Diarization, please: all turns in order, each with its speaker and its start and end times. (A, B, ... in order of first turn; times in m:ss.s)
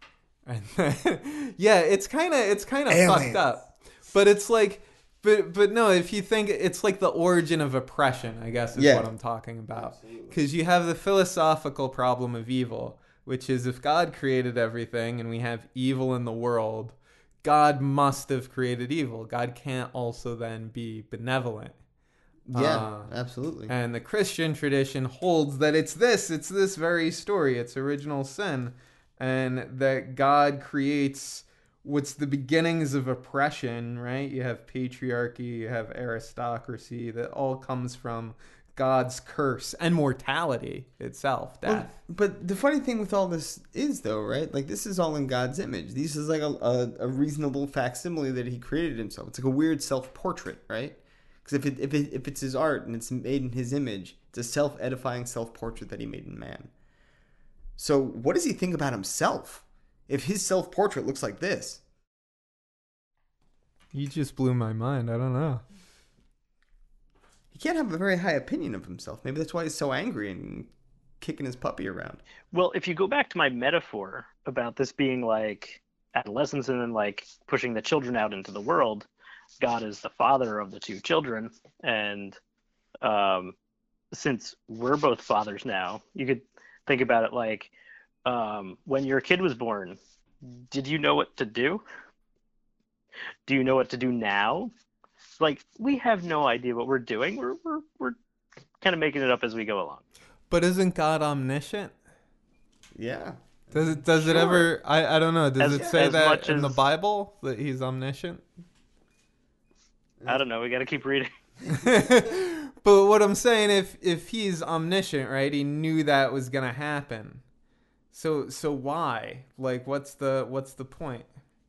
0:00.4-0:21.8 A
0:02.9-0:03.4 B
0:08.7-0:09.1 B
0:09.7-0:10.4 B
0:22.4-0:23.7 B
0:22.5-0:23.1 A
0:23.7-0:41.9 A
0:41.6-0:56.7 B
0:57.8-1:01.8 B
1:03.9-1:05.6 A
1:07.5-1:12.2 B
1:12.5-1:19.1 C
1:19.6-1:22.4 C
1:23.0-1:23.5 C
1:24.1-1:27.7 C
1:28.2-1:30.0 C
1:30.7-1:31.8 C
1:33.4-1:34.7 C
1:35.4-1:38.2 C
1:38.8-1:40.0 C
1:40.5-1:41.9 A
1:43.0-1:44.6 B
1:43.7-1:48.4 A
1:45.6-1:46.8 C
1:45.7-1:46.0 B
1:50.2-1:51.3 C
1:51.7-1:57.4 A
1:58.1-2:01.3 A